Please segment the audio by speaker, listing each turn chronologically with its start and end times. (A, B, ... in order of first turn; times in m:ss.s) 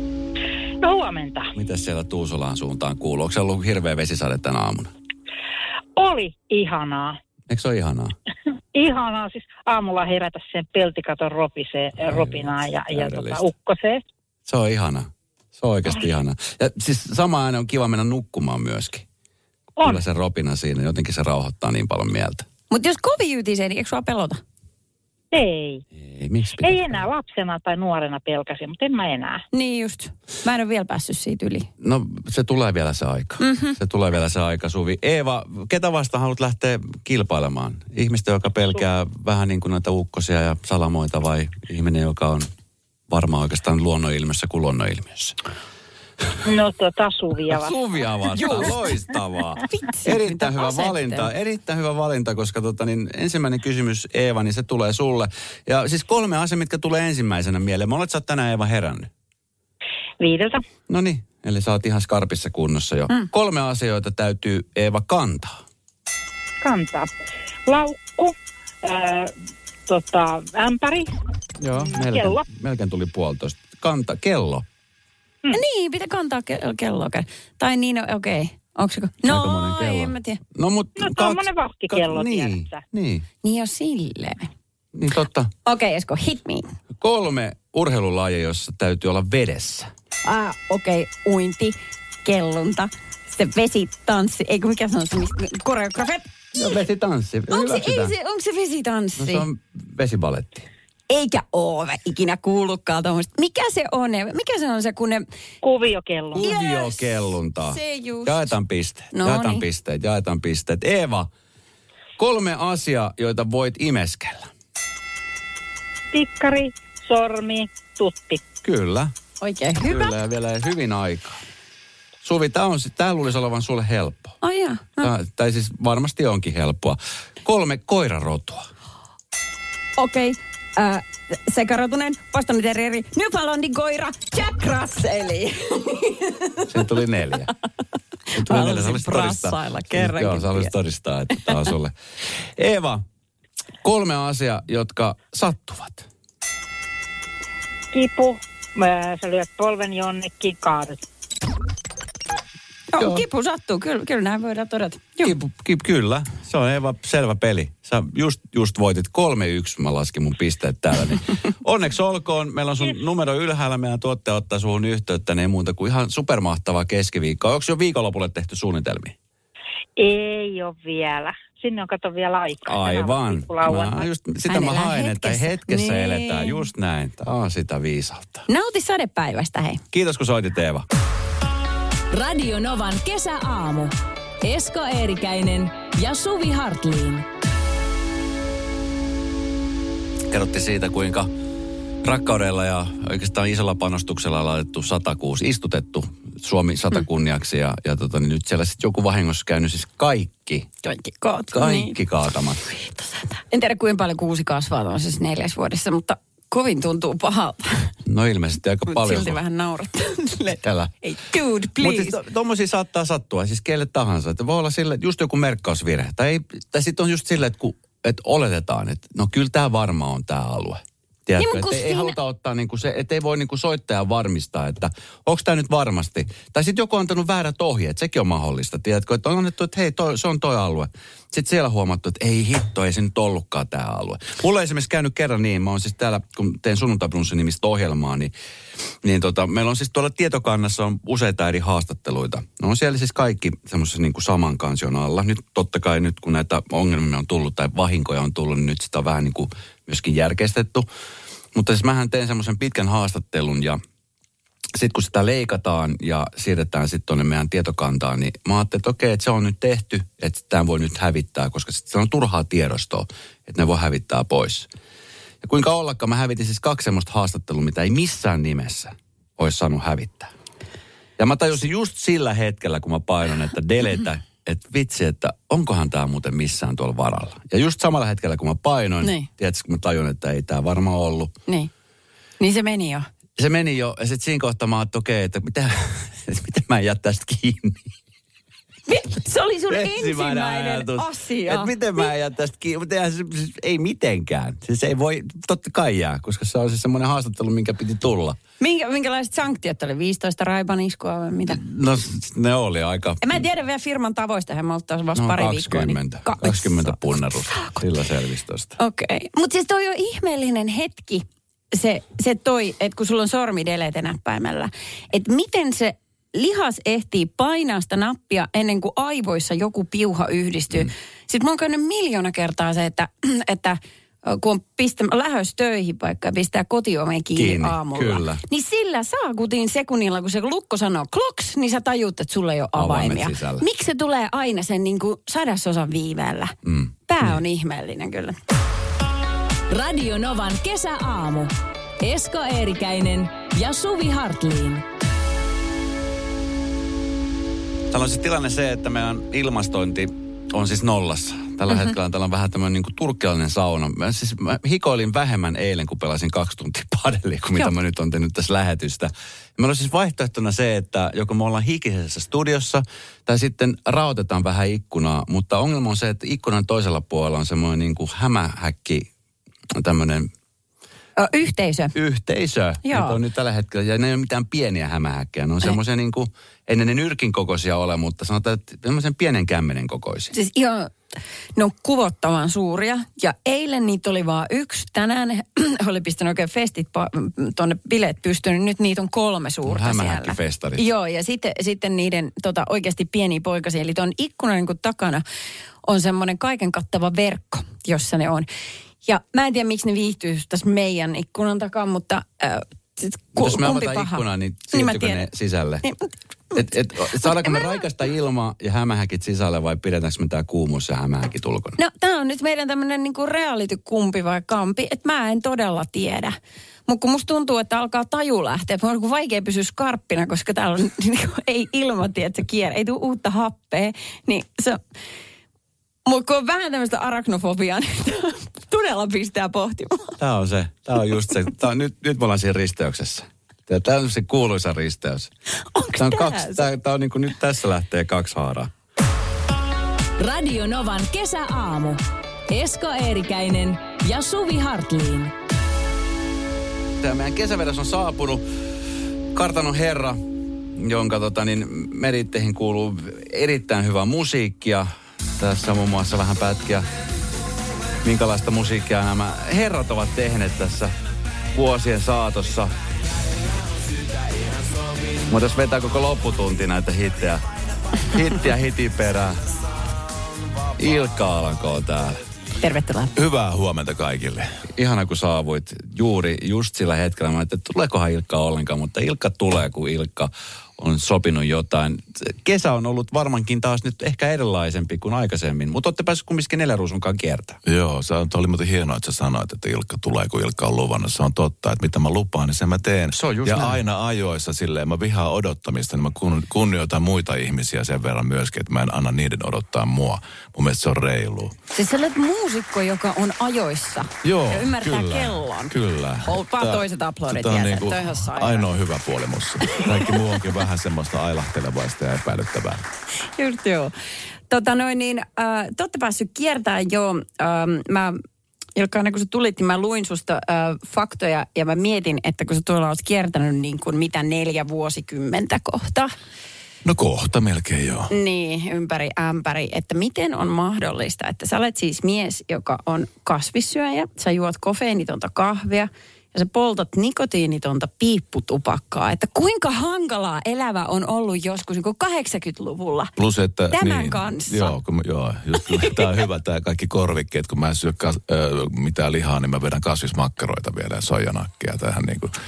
0:00.8-0:01.5 A
0:01.5-0:04.9 B
0:06.0-0:07.2 A
0:07.5-0:08.2 B
0:08.8-0:14.0 A
0:12.0-0:13.5 B
0:14.4-0:19.1 B
0:19.8-0:22.4 B
0:22.7-0:24.4 C
0:25.3-0:25.8 A
0:25.9-0:27.1 B
0:26.6-0:29.4 A
0:29.5-0:31.7 C
0:31.8-0:42.5 B
0:33.4-0:33.8 C
0:43.1-0:45.4 B
0:46.4-0:47.8 A
0:47.4-0:59.1 B
0:48.4-0:48.8 C
0:49.7-0:51.3 C
1:00.2-1:00.6 A
1:00.9-1:05.6 B
1:06.6-1:07.1 A
1:07.6-1:09.3 A
1:09.9-1:11.1 A
1:11.6-1:14.7 B
1:11.9-1:12.4 A
1:15.5-1:20.4 C
1:19.2-1:23.3 B
1:21.0-1:22.8 A
1:23.4-1:24.5 C
1:24.9-1:25.5 B
1:25.6-1:26.7 C
1:27.0-1:29.9 B
1:30.2-1:36.6 C
1:36.5-1:38.1 B
1:37.5-1:39.5 C
1:39.2-1:40.7 B
1:41.1-1:45.2 C
1:45.6-1:46.5 A
1:46.3-1:51.3 B
1:46.4-1:48.5 C
1:49.1-1:49.6 C
1:52.2-1:54.5 B
1:56.1-1:58.4 A
1:58.6-1:59.1 B
1:59.4-2:00.2 C
1:59.8-2:01.4 B
2:02.2-2:04.4 B
2:04.4-2:05.1 C
2:05.0-2:08.7 B
2:10.0-2:16.8 C
2:16.7-2:17.5 B
2:18.3-2:20.7 C
2:18.3-2:23.0 B
2:23.8-2:26.1 B
2:27.9-2:31.0 A
2:32.9-2:35.4 C
2:33.0-2:33.2 B
2:35.2-2:49.2 B
2:50.0-2:54.1 A
2:52.6-2:58.5 B
2:54.4-2:56.7 C
2:58.5-2:59.8 C
2:59.9-3:00.9 B
3:02.1-3:07.3 D
3:10.3-3:11.3 B
3:12.0-3:20.7 B
3:20.8-3:22.0 C
3:21.5-3:22.7 B
3:22.8-3:27.9 C
3:28.0-3:29.4 B
3:28.9-3:32.2 C
3:30.6-3:30.9 B
3:31.8-3:58.3 B
3:41.4-3:42.2 C
3:59.0-4:10.9 B
4:11.5-4:13.8 B
4:14.8-4:24.7 B
4:25.4-4:30.3 B
4:31.2-4:41.3 B
4:39.0-4:39.3 C
4:42.4-4:43.1 C
4:43.4-4:47.9 B
4:48.9-4:52.1 C
4:49.7-4:58.4 B
4:58.6-5:01.6 C
5:01.5-5:03.4 B
5:03.2-5:07.8 C
5:05.1-5:08.8 B
5:08.8-5:36.5 C
5:27.4-5:28.4 B
5:32.8-5:33.6 B
5:36.6-5:37.4 B
5:37.1-5:38.4 C
5:39.7-5:44.8 D
5:47.9-6:09.1 B
6:09.7-6:10.3 B
6:11.2-6:12.0 C
6:11.9-6:20.3 B
6:12.8-6:13.2 C
6:20.3-6:21.0 C
6:21.6-6:35.2 C
6:29.6-6:30.9 B
6:35.8-6:38.5 C
6:39.0-6:45.3 C
6:43.3-6:45.9 B
6:45.8-6:47.8 C
6:46.5-6:51.8 B
6:51.8-7:04.8 C
7:06.1-7:10.2 C
7:10.2-7:15.3 B
7:15.6-7:16.6 C
7:16.0-7:18.7 B
7:20.2-7:25.3 D
7:27.0-7:28.4 B
7:29.3-7:30.2 B
7:30.7-7:36.9 B
7:38.0-7:40.9 B
7:41.5-7:42.7 B
7:45.2-7:47.4 B
7:48.0-7:49.5 B
7:50.8-7:52.2 B
7:52.6-7:53.1 C
7:53.1-7:54.6 E
7:54.7-8:07.6 B
8:07.6-8:21.5 E
8:13.1-8:13.8 B
8:21.7-8:25.7 C
8:24.2-8:32.9 E
8:26.3-8:28.7 C
8:29.6-8:30.0 C
8:33.4-8:33.9 C
8:34.5-8:38.2 C
8:38.8-8:46.1 C
8:46.8-8:48.1 E
8:48.1-9:03.1 C
9:03.2-9:12.4 E
9:03.7-9:04.8 C
9:05.6-9:06.1 C